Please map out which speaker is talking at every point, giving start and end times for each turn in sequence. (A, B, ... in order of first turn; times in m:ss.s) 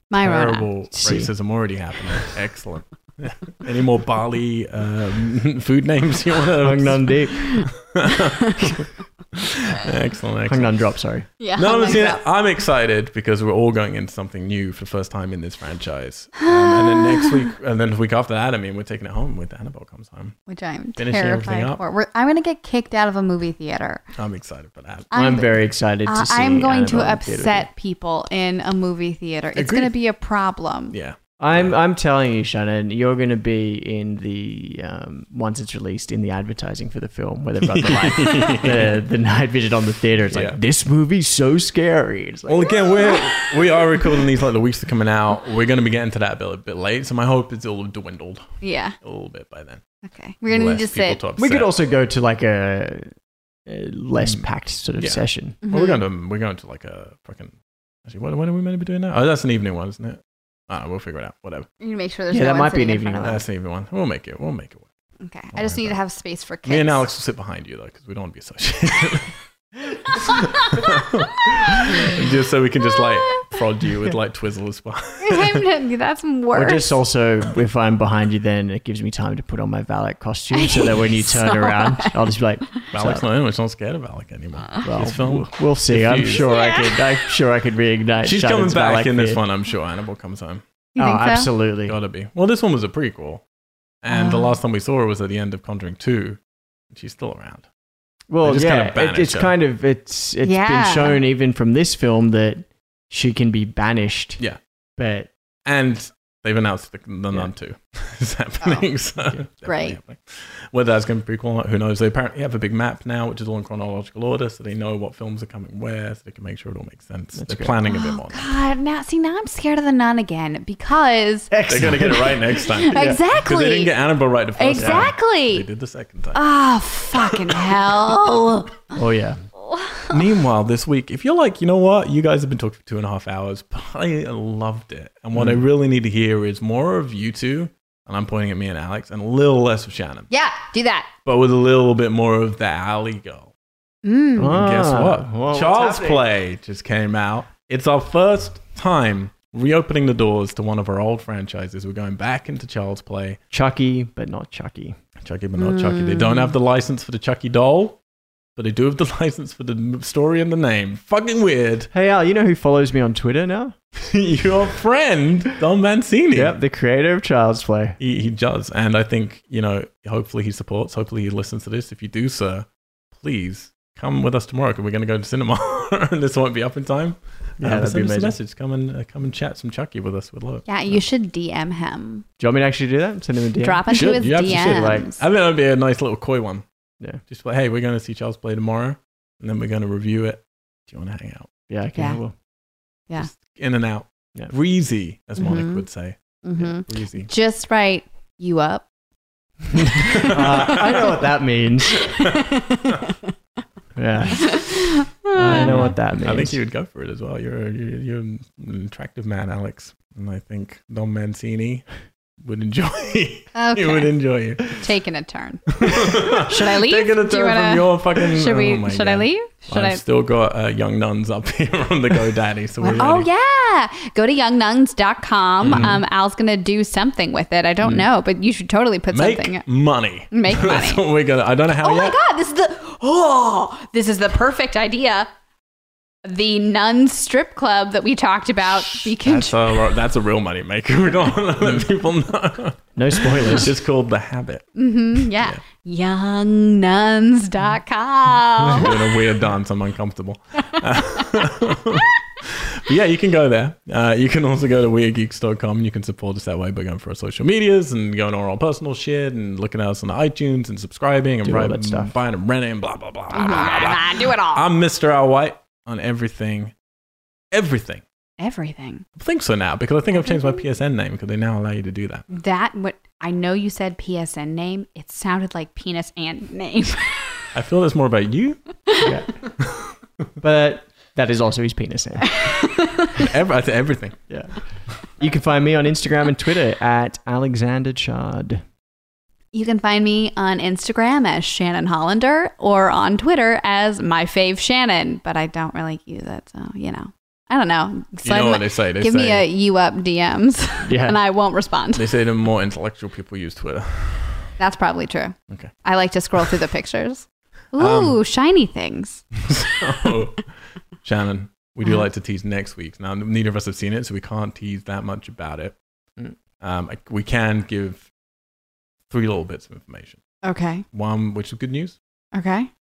0:00.1-0:00.7 A
0:00.2-0:10.7 B
0:00.9-0:01.3 C
0:06.6-0:07.5 C
0:07.5-0:08.7 A
0:10.4-0:11.3 C
0:11.4-0:12.2 A
0:11.6-0:20.4 B
0:16.4-0:17.4 A
0:20.5-0:24.0 A
0:21.0-0:21.8 B
0:24.2-0:25.1 B
0:25.1-0:25.5 A
0:25.1-0:27.7 C
0:26.0-0:31.0 A
0:29.5-0:29.9 B
0:30.9-0:31.7 B
0:31.4-0:42.8 C
0:37.6-0:39.0 B
0:40.3-0:40.6 B
0:42.5-0:49.8 B
0:43.0-0:43.7 A
0:48.6-0:49.0 A
0:50.0-0:51.2 A
0:50.5-0:51.7 B
0:51.4-0:53.1 C
0:53.6-0:55.6 C
0:55.0-0:57.5 B
0:55.6-0:56.0 A
0:58.0-1:01.7 B
1:01.8-1:03.4 A
1:02.3-1:03.4 C
1:03.2-1:04.8 B
1:05.2-1:07.0 A
1:05.5-1:06.0 B
1:06.6-1:09.3 B
1:10.0-1:15.6 B
1:10.1-1:12.2 A
1:12.8-1:13.6 A
1:15.2-1:17.0 A
1:16.5-1:23.2 C
1:20.5-1:22.2 A
1:22.9-1:26.5 B
1:24.8-1:29.4 C
1:26.3-1:27.3 A
1:28.2-1:30.6 B
1:30.9-1:31.5 A
1:31.0-1:32.0 C
1:31.9-1:33.4 B
1:34.0-1:36.4 B
1:34.1-1:34.6 A
1:36.9-1:37.6 B
1:38.3-1:44.4 C
1:38.4-1:39.5 B
1:40.4-1:41.2 A
1:45.0-1:45.3 C
1:45.6-1:58.5 B
1:49.6-1:50.0 A
1:57.4-1:57.7 C
1:57.9-2:01.5 A
2:01.5-2:03.2 C
2:01.7-2:06.4 B
2:02.6-2:03.9 A
2:04.6-2:05.6 A
2:04.7-2:05.1 C
2:06.3-2:09.0 A
2:07.1-2:07.8 B
2:08.9-2:09.4 C
2:09.6-2:10.1 A
2:10.1-2:20.3 B
2:15.3-2:15.6 C
2:20.3-2:21.1 A
2:21.2-2:23.5 B
2:24.0-2:24.6 A
2:24.4-2:26.2 C
2:24.4-2:33.4 B
2:33.5-2:35.0 C
2:35.2-2:38.0 B
2:35.6-2:36.5 A
2:38.6-2:41.9 B
2:41.9-2:43.7 C
2:44.0-2:46.6 B
2:46.3-2:48.0 C
2:48.0-3:01.0 B
2:57.6-2:58.4 C
3:00.6-3:02.2 A
3:02.4-3:05.1 C
3:03.6-3:05.2 A
3:03.9-3:06.6 B
3:07.3-3:11.5 B
3:11.7-3:12.3 C
3:13.2-3:17.3 B
3:15.4-3:15.8 A
3:16.4-3:18.8 A
3:19.7-3:22.1 C
3:20.1-3:21.1 B
3:22.0-3:23.3 A
3:22.1-3:22.4 B
3:23.9-3:24.5 C
3:24.4-3:25.9 A
3:25.3-3:26.6 C
3:25.4-3:31.8 B
3:32.4-3:34.9 B
3:33.5-3:34.1 A
3:34.7-3:40.0 A
3:35.8-3:43.3 B
3:42.8-3:49.6 A
3:45.6-3:46.0 B
3:49.1-3:52.2 B
3:50.3-3:51.0 A
3:51.8-3:55.3 A
3:56.2-3:59.6 A
3:58.9-4:05.6 B
4:03.0-4:03.7 C
4:04.8-4:09.2 A
4:08.7-4:26.7 B
4:21.4-4:22.1 C
4:23.3-4:24.7 A
4:27.5-4:28.0 B
4:28.4-4:29.0 A
4:29.2-4:32.2 B
4:30.1-4:30.6 A
4:32.3-4:37.4 A
4:37.5-4:38.6 B
4:38.9-4:39.1 A
4:39.0-4:39.3 C
4:39.6-4:39.9 B
4:40.4-4:42.4 C
4:42.2-4:43.3 A
4:43.2-4:44.2 B
4:44.3-4:44.6 C
4:45.1-4:48.6 C
4:49.5-5:02.1 A
4:58.2-4:59.4 B
5:00.8-5:01.2 C
5:01.9-5:04.5 B
5:04.6-5:09.8 A
5:07.8-5:08.2 B
5:09.4-5:10.5 B
5:11.0-5:15.8 B
5:16.6-5:18.1 B
5:19.1-5:20.2 B
5:20.4-5:20.8 A
5:20.9-5:22.0 B
5:22.3-5:22.7 A